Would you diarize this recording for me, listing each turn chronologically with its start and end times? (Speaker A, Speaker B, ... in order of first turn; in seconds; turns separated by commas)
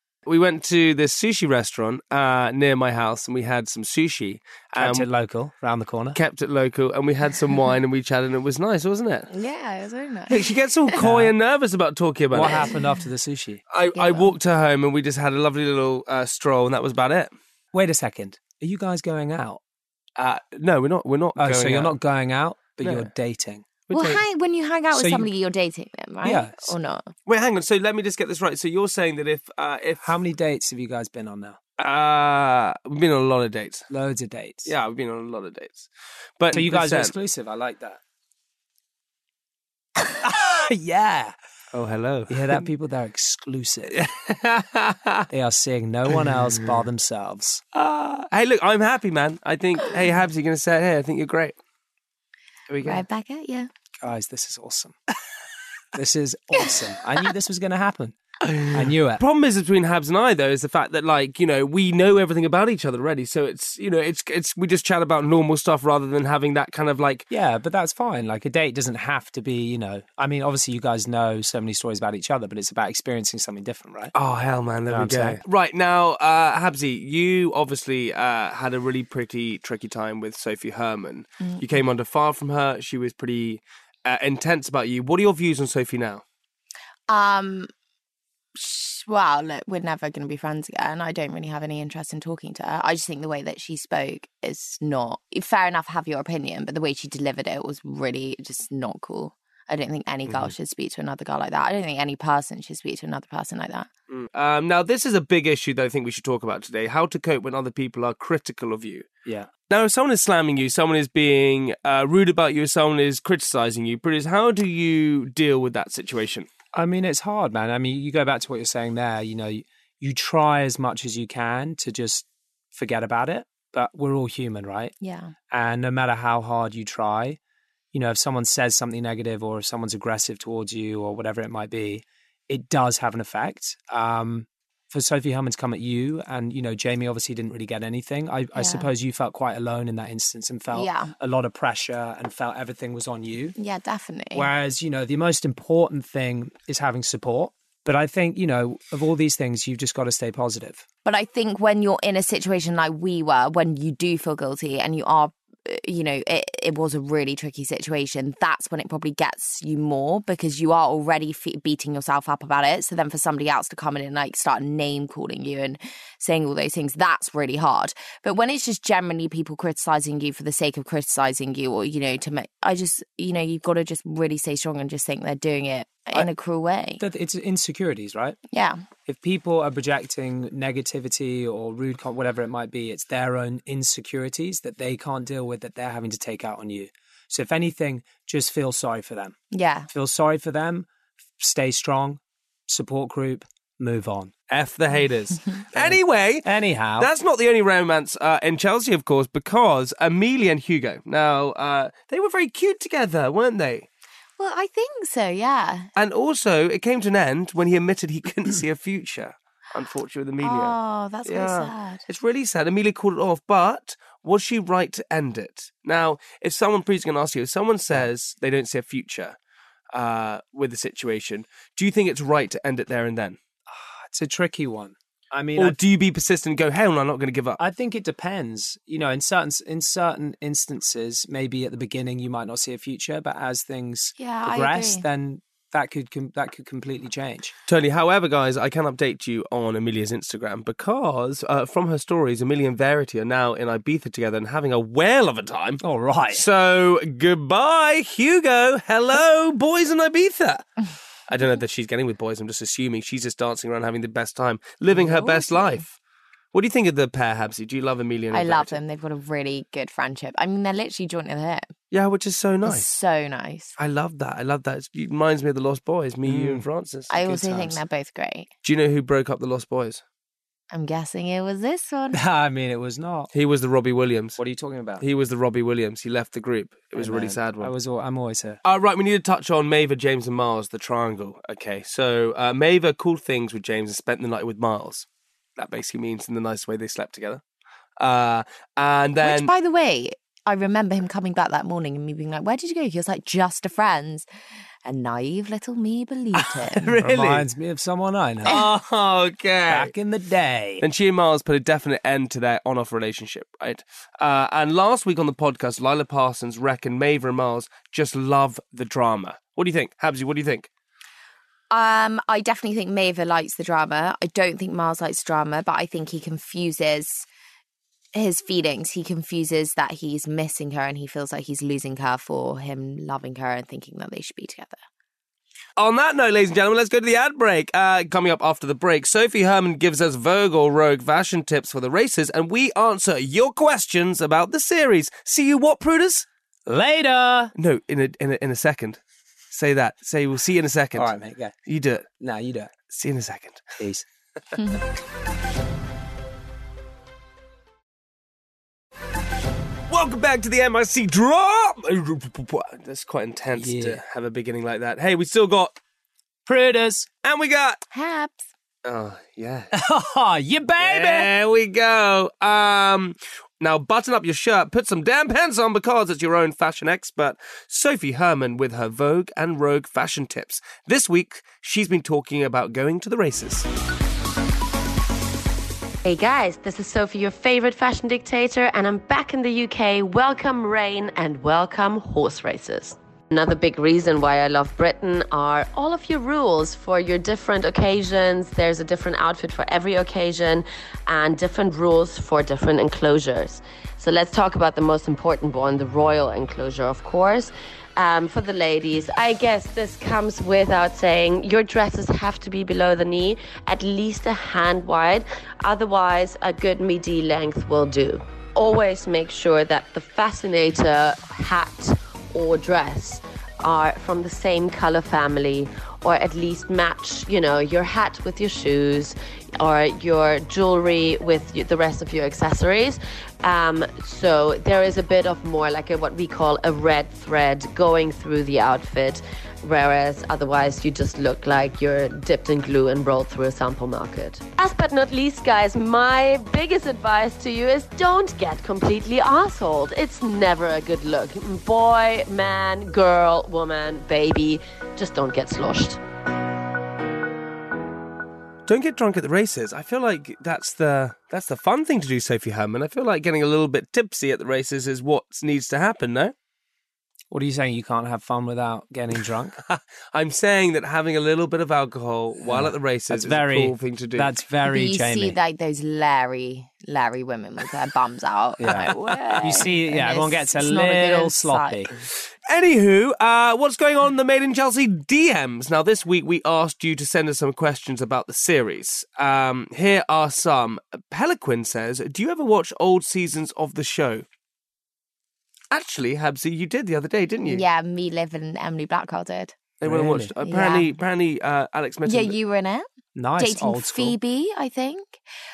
Speaker A: 0.3-5.1, Speaker B: 4.8-6.2, Speaker A: 6.2-9.3, Speaker C: 9.3-10.9, Speaker A: 10.3-12.7, Speaker B: 11.0-11.3, Speaker B: 12.3-13.6, Speaker A: 13.7-17.3, Speaker C: 13.9-14.4, Speaker B: 17.7-19.6, Speaker A: 20.2-21.9, Speaker B: 21.4-23.7, Speaker A: 22.8-23.1, Speaker A: 23.9-24.2, Speaker C: 23.9-27.1, Speaker B: 24.9-25.3, Speaker B: 26.2-26.8, Speaker A: 27.3-30.1, Speaker B: 30.0-31.6, Speaker A: 31.8-33.9, Speaker B: 33.9-34.7, Speaker A: 34.7-37.1, Speaker B: 36.5-38.0, Speaker B: 40.2-41.3, Speaker A: 41.7-42.6, Speaker B: 42.3-44.0, Speaker A: 44.0-45.2, Speaker B: 45.3-47.6, Speaker A: 47.7-51.6, Speaker A: 52.7-53.0, Speaker C: 52.8-53.7, Speaker B: 54.0-55.0, Speaker B: 55.9-58.2, Speaker A: 58.5-67.3, Speaker B: 58.7-59.2, Speaker B: 67.3-74.1, Speaker A: 74.1-86.2, Speaker B: 74.9-75.4, Speaker C: 81.4-81.7, Speaker C: 87.1-87.7, Speaker C: 88.6-103.9, Speaker B: 100.3-100.5, Speaker A: 104.1-109.1, Speaker A: 109.7-116.5, Speaker B: 116.7-124.9, Speaker C: 125.0-125.3, Speaker B: 125.5-127.4, Speaker B: 127.9-143.6, Speaker C: 138.6-138.9, Speaker C: 140.7-141.1, Speaker C: 143.6-144.5, Speaker B: 144.3-150.8, Speaker C: 151.1-177.0, Speaker B: 177.0-178.4, Speaker C: 178.5-178.8, Speaker B: 179.1-189.4, Speaker C: 189.5-189.9, Speaker B: 189.9-190.9, Speaker B: 191.4-194.3, Speaker A: 194.5-196.4, Speaker B: 195.7-197.1, Speaker A: 197.0-203.9, Speaker C: 204.4-205.9, Speaker A: 206.0-219.4, Speaker C: 210.4-212.0, Speaker A: 219.9-223.4, Speaker B: 223.7-225.8, Speaker A: 225.6-227.6, Speaker B: 227.6-237.5, Speaker C: 234.2-235.1, Speaker A: 237.7-245.8, Speaker B: 245.8-246.5, Speaker A: 246.3-250.7, Speaker A: 251.3-256.0, Speaker C: 254.9-255.8, Speaker A: 256.5-258.8, Speaker C: 258.3-261.7, Speaker A: 261.9-262.9, Speaker C: 262.6-263.7, Speaker A: 263.8-267.7, Speaker B: 266.3-266.6, Speaker C: 267.1-268.5, Speaker A: 268.6-270.0, Speaker C: 270.7-272.2, Speaker B: 272.1-273.3, Speaker A: 273.3-274.4, Speaker B: 274.4-275.0, Speaker A: 275.0-277.7, Speaker B: 276.9-278.6, Speaker A: 278.6-285.1, Speaker A: 285.6-287.4, Speaker A: 288.0-289.5, Speaker C: 289.2-294.3, Speaker C: 294.9-296.9, Speaker A: 296.4-297.5, Speaker B: 297.0-298.6, Speaker A: 298.4-299.9, Speaker B: 299.7-300.8, Speaker A: 300.8-310.7, Speaker C: 311.7-317.3, Speaker C: 318.1-324.8, Speaker A: 325.8-336.3, Speaker B: 336.7-337.5, Speaker A: 337.6-339.0, Speaker A: 339.5-341.1, Speaker B: 340.9-341.6, Speaker A: 341.7-342.1, Speaker B: 342.2-342.7, Speaker A: 342.9-343.6, Speaker B: 343.8-344.1, Speaker A: 349.9-355.8, Speaker B: 353.6-354.0, Speaker B: 356.5-357.1, Speaker A: 357.2-357.8, Speaker C: 357.9-358.5, Speaker A: 358.9-359.7, Speaker B: 359.7-361.3, Speaker A: 360.8-373.7, Speaker D: 376.1-446.0, Speaker A: 448.7-456.3, Speaker B: 457.3-459.6, Speaker A: 459.6-464.3, Speaker B: 462.4-465.4, Speaker C: 464.6-471.9, Speaker B: 468.6-471.9, Speaker A: 472.5-484.3, Speaker A: 485.7-487.6, Speaker C: 487.4-489.5, Speaker A: 489.8-492.4, Speaker B: 489.8-490.3, Speaker C: 490.4-490.9, Speaker C: 492.1-492.9, Speaker B: 493.1-494.2, Speaker C: 493.4-495.2